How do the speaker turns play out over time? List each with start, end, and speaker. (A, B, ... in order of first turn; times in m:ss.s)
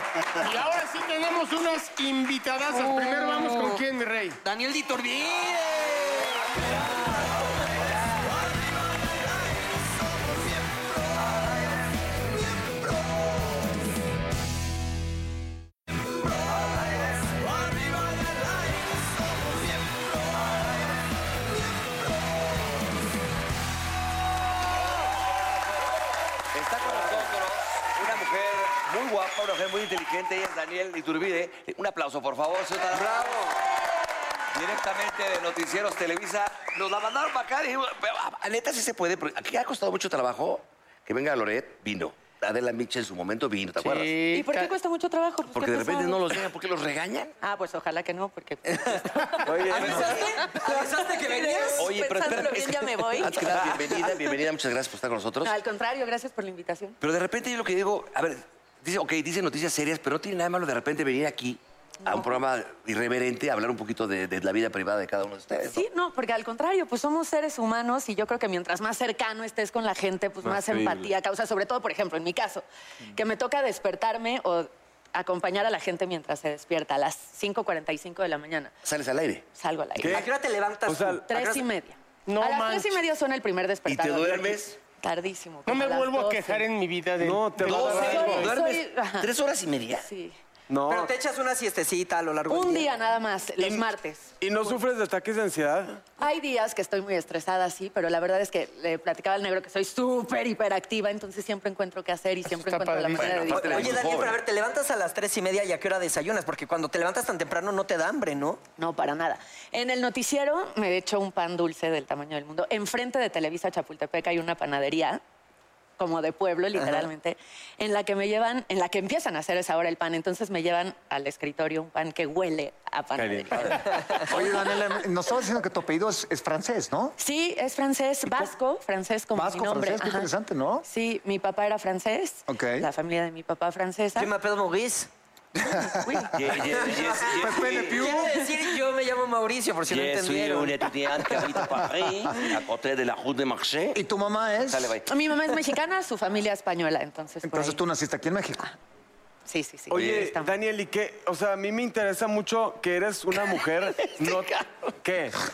0:00.4-0:04.4 A
0:02.7-0:03.8 B
0:04.4-0:06.5 B
0:26.5-0:33.6 C
0:34.5-0:44.2 C
0:43.8-0:44.7 A
0:44.3-0:46.3 D
0:45.5-0:47.3 C
0:47.4-0:53.6 D
0:49.4-0:50.2 E
0:49.6-0:52.0 B
0:49.8-0:50.2 C
0:51.8-0:55.6 C
0:53.7-0:54.1 B
0:55.4-0:57.0 D
0:57.0-1:05.8 C
1:02.1-1:02.4 D
1:05.7-1:18.7 D
1:10.4-1:11.1 E
1:18.8-1:19.4 C
1:19.5-1:20.3 D
1:20.0-1:20.3 E
1:20.1-1:21.6 B
1:20.9-1:21.3 E
1:21.3-1:26.6 D
1:22.3-1:23.0 A
1:23.9-1:24.8 C
1:25.7-1:28.5 A
1:27.2-1:28.5 E
1:27.6-1:30.1 C
1:27.8-1:29.3 D
1:30.0-1:30.4 D
1:30.7-1:31.1 E
1:30.9-1:32.9 B
1:32.5-1:34.8 D
1:34.4-1:36.0 E
1:36.2-1:44.0 D
1:42.5-1:43.5 A
1:43.1-1:44.4 C
1:43.5-1:48.6 B
1:48.8-1:55.2 D
1:56.0-2:04.4 D
2:03.2-2:03.9 E
2:04.2-2:07.2 F
2:07.2-2:10.3 D
2:09.3-2:10.8 F
2:10.8-2:14.3 D
2:12.5-2:12.9 F
2:14.2-2:15.1 B
2:16.3-2:18.0 C
2:16.9-2:21.6 B
2:17.2-2:18.4 F
2:19.9-2:24.0 C
2:23.9-2:25.0 F
2:24.6-2:25.1 C
2:25.1-2:27.8 D
2:27.4-2:28.6 F
2:29.5-2:30.6 D
2:29.9-2:35.4 E
2:29.9-2:30.3 C